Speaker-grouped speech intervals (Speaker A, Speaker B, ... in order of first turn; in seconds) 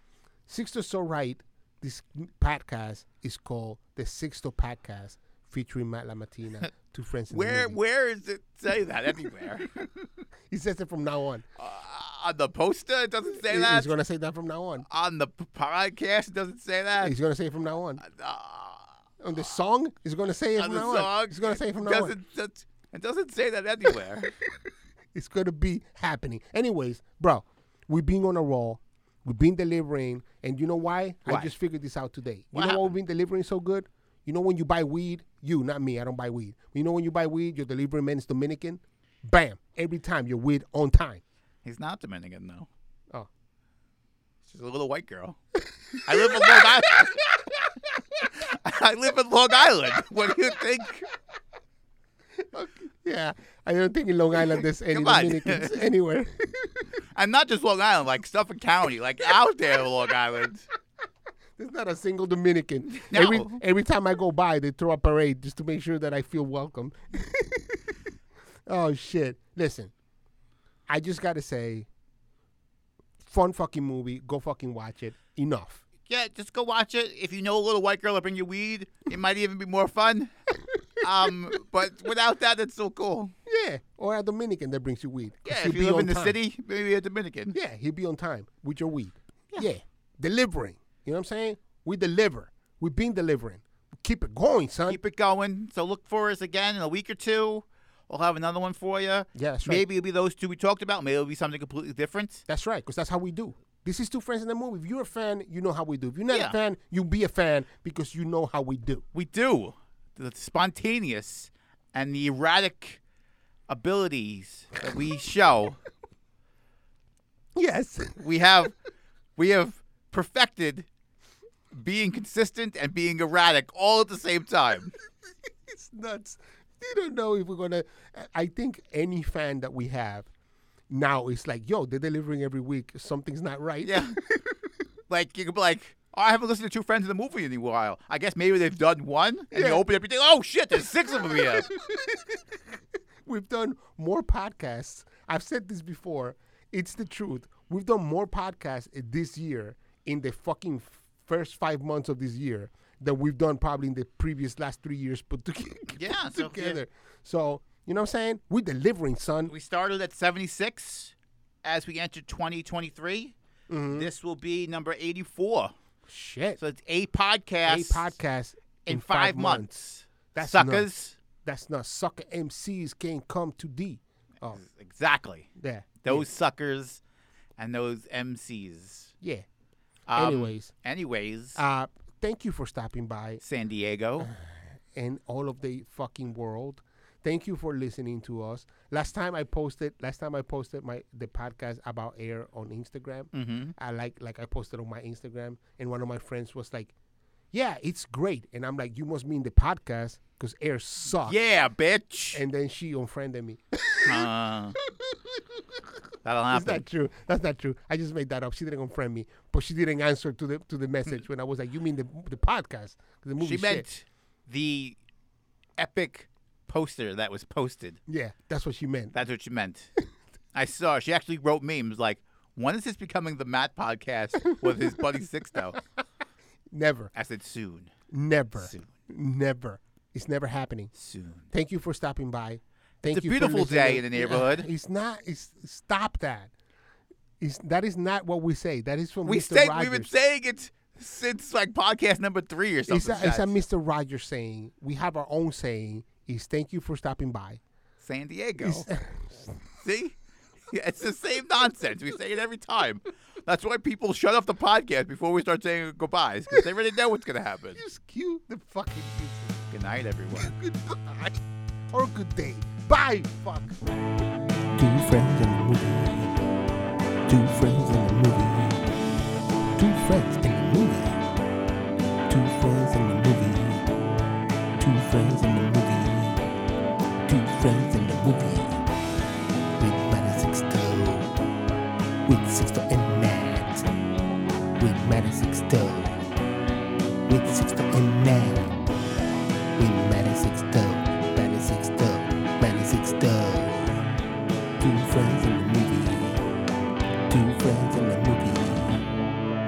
Speaker A: 0.5-7.8, 10.5-11.4, 13.5-14.8, 17.0-18.0, 19.2-22.1, 25.1-41.2, 45.9-48.2, 52.4-56.8, 61.6-67.9, 68.7-69.9, 70.9-71.9, 73.2-75.8, 83.5-86.4, 87.5-95.0, 99.3-99.8, 102.5-109.0, 117.5-118.2, 125.5-130.3, 130.9-134.6, 139.5-139.8, 141.1-159.5, 163.7-164.1, 166.1-166.6, 167.7-170.9, 171.4-174.6, 175.6-176.2, 180.1-180.7, 181.6-183.4, 184.2-196.9, 197.5-201.4, 202.3-205.8, 206.5-213.8, 218.1-219.1, 226.7-227.1, 228.1-230.9, 231.5-236.5, 237.4-240.1, 242.9-247.6, 248.6-249.6, 257.8-259.7, 260.4-261.4, 261.9-263.8, 264.7-266.3, 267.3-268.8, 269.8-271.2, 272.3-273.9, 274.8-276.4, 277.3-278.8, 279.8-281.3, 282.2-283.9, 284.8-286.2, 287.3-288.8, 289.8-294.0, 294.8-296.4, 297.3-299.1
Speaker B: 7.3-9.9, 11.6-13.9, 14.9-17.1, 18.0-19.0, 20.6-24.3, 31.3-31.5, 32.5-32.9, 41.6-42.7, 44.4-45.4, 46.0-47.3, 48.4-51.1, 54.9-55.8, 57.1-60.6, 62.9-63.6, 76.0-80.3, 81.0-83.3, 85.5-87.5, 94.9-102.4, 106.3-106.5, 109.1-113.0, 113.7-115.8, 118.2-118.7, 119.3-120.9, 121.7-124.9, 133.8-134.2, 135.1-141.7, 155.9-156.8, 159.5-163.3, 163.9-165.7, 166.6-168.2, 168.8-171.2, 174.5-175.5, 176.0-177.0, 177.6-179.1, 180.1-181.6, 183.4-184.3, 193.3-193.7, 201.2-202.4, 204.0-204.8, 206.2-206.8, 213.4-215.0, 215.8-218.0, 219.1-219.9, 220.5-225.8, 227.1-227.9, 228.6-228.9, 230.9-231.5, 233.1-234.7, 239.2-243.5, 248.0-248.9, 249.8-250.2, 250.7-257.8, 259.7-260.5